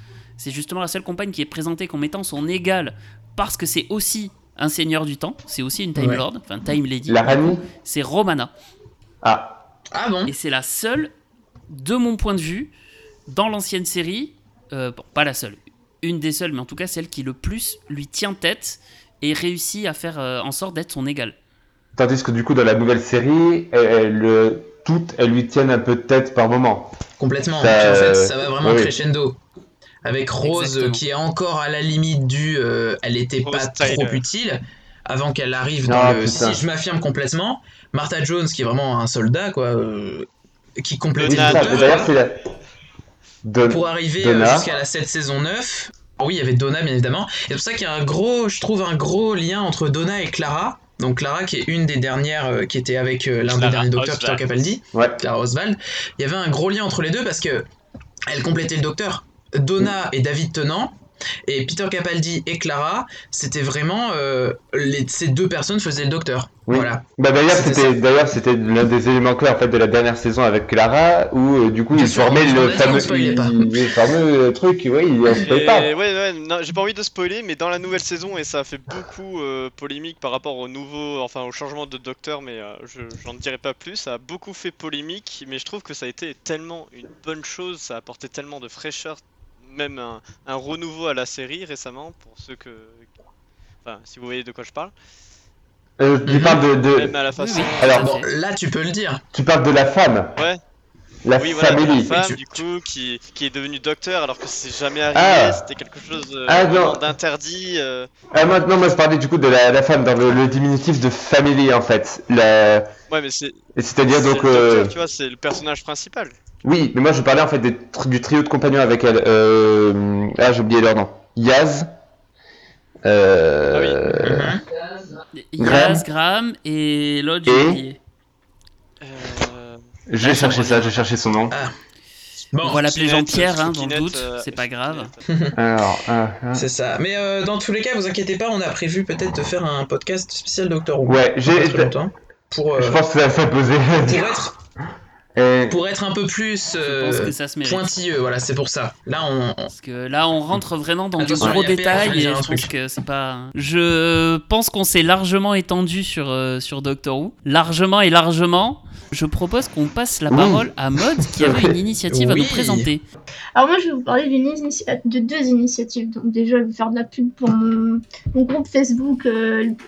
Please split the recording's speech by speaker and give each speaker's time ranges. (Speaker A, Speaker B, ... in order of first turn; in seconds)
Speaker A: 0.4-8.5, 10.2-11.1, 11.7-12.7, 13.3-21.4, 30.4-31.0, 97.4-98.3, 125.4-128.0, 130.2-130.9, 132.6-135.1, 146.8-147.9, 149.7-163.0
Speaker B: 5.9-6.2, 9.9-10.3, 27.2-29.4, 30.0-40.3, 40.8-42.1, 43.7-57.7, 58.3-60.9, 61.5-67.9, 71.9-73.8, 96.3-96.6, 97.8-99.2, 102.1-102.6, 124.1-124.6, 131.5-131.8, 132.5-132.9, 135.3-135.6, 136.5-143.0, 144.0-144.5, 145.7-149.7, 151.2-152.7, 162.1-162.9
Speaker C: 7.1-7.6, 9.2-9.6, 21.9-26.9, 27.6-28.9, 35.8-36.6, 41.2-42.4, 43.4-44.7, 54.9-55.2, 66.7-75.9, 96.0-97.2, 97.8-98.1, 99.3-100.3, 101.2-102.1, 105.1-105.6, 106.5-107.0, 108.3-112.9, 113.8-114.9, 116.6-121.9, 123.0-124.5, 125.6-126.0, 127.5-127.8, 130.1-131.6, 135.5-136.7, 141.0-141.9, 142.7-144.5, 145.3-145.8, 160.3-160.7, 161.2-161.7
Speaker D: 33.4-34.2, 41.1-42.2, 53.5-54.4, 75.4-93.0, 93.8-94.9, 96.8-98.1, 101.3-108.1, 113.1-116.3, 123.7-124.0, 129.0-129.8, 132.7-135.3
Speaker E: 163.6-169.7